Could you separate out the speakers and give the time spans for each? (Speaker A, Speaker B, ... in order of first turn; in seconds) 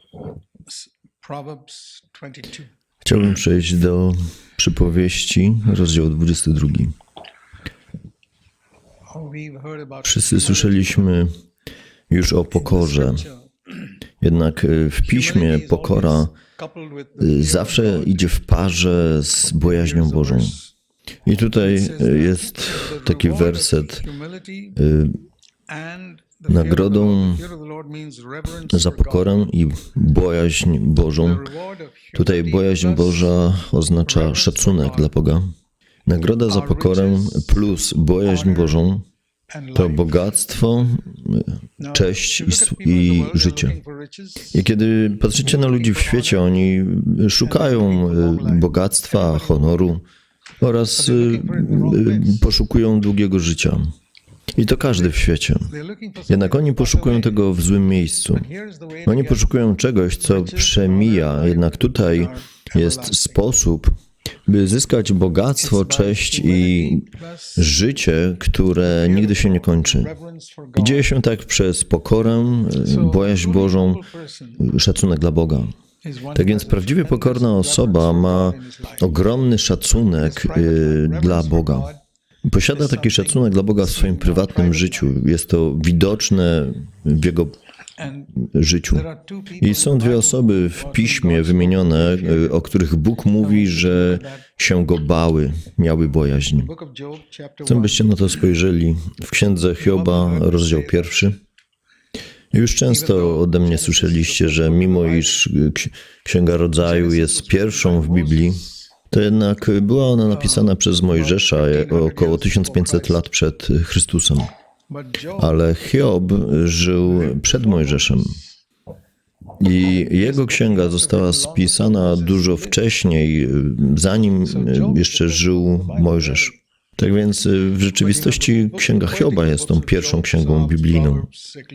Speaker A: 1.2-1.8, 25.8-26.7, 51.1-52.1, 76.3-76.7, 77.5-77.9, 81.0-81.6
Speaker B: 3.0-6.9, 10.0-11.3, 12.1-13.3, 14.2-16.3, 17.2-20.6, 21.2-24.0, 24.7-25.2, 26.5-27.4, 28.6-31.5, 32.1-35.5, 36.0-39.0, 39.7-43.8, 44.5-50.0, 50.6-53.9, 54.6-55.7, 56.3-58.5, 59.0-63.9, 64.5-70.1, 70.7-74.0, 74.6-75.7, 76.3-81.9, 82.4-87.5, 88.3-96.7, 97.6-101.4, 102.5-114.5, 115.3-118.4, 119.6-131.3